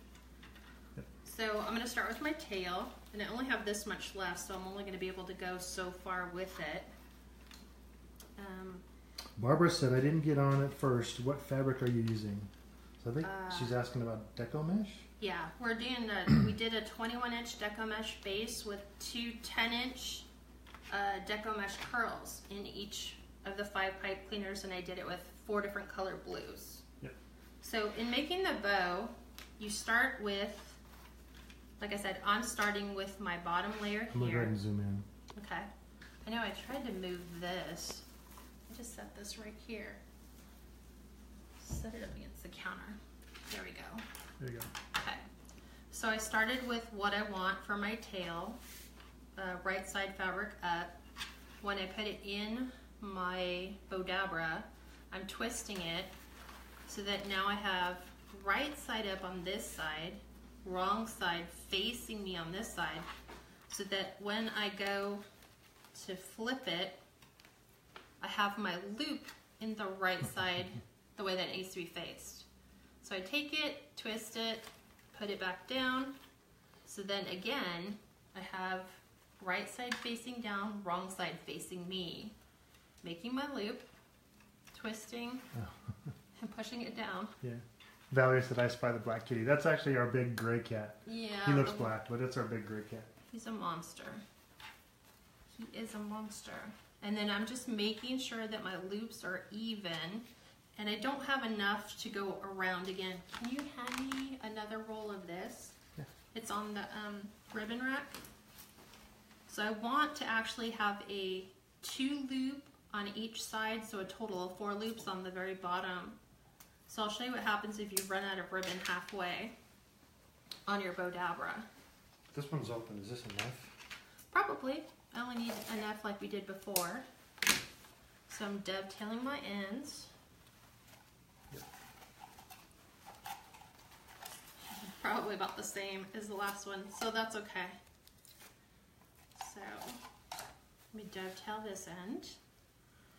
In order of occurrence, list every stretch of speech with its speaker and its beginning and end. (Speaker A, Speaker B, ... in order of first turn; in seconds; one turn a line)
Speaker A: 1.2-6.9
Speaker A: 8.4-8.8
Speaker B: 9.4-15.1
Speaker A: 13.2-13.8
Speaker A: 15.2-20.2
Speaker A: 20.9-26.8
Speaker A: 27.6-30.8
Speaker A: 31.8-34.5
Speaker B: 34.1-35.0
Speaker A: 35.3-35.7
Speaker A: 36.2-38.0
Speaker A: 38.7-40.0
Speaker A: 41.6-44.0
Speaker B: 44.4-44.7
Speaker A: 44.9-45.2
Speaker A: 45.9-48.6
Speaker A: 49.4-50.9
Speaker A: 51.6-56.1
Speaker A: 56.9-63.1
Speaker A: 63.7-65.2
Speaker A: 65.9-67.0
Speaker A: 68.2-72.5
Speaker A: 73.0-76.1
Speaker A: 76.8-82.3
Speaker A: 83.0-83.8
Speaker A: 84.7-85.4
Speaker B: 85.5-85.9
Speaker A: 86.4-87.3
Speaker B: 87.4-93.1
Speaker A: 91.0-91.9
Speaker A: 93.3-94.2
Speaker A: 95.5-105.8
Speaker A: 106.3-108.2
Speaker A: 109.5-116.2
Speaker A: 116.9-119.5
Speaker A: 120.7-121.7
Speaker B: 122.3-123.7
Speaker A: 124.3-127.0
Speaker A: 128.3-130.1
Speaker A: 134.7-137.8
Speaker A: 139.3-140.0
Speaker A: 140.9-142.4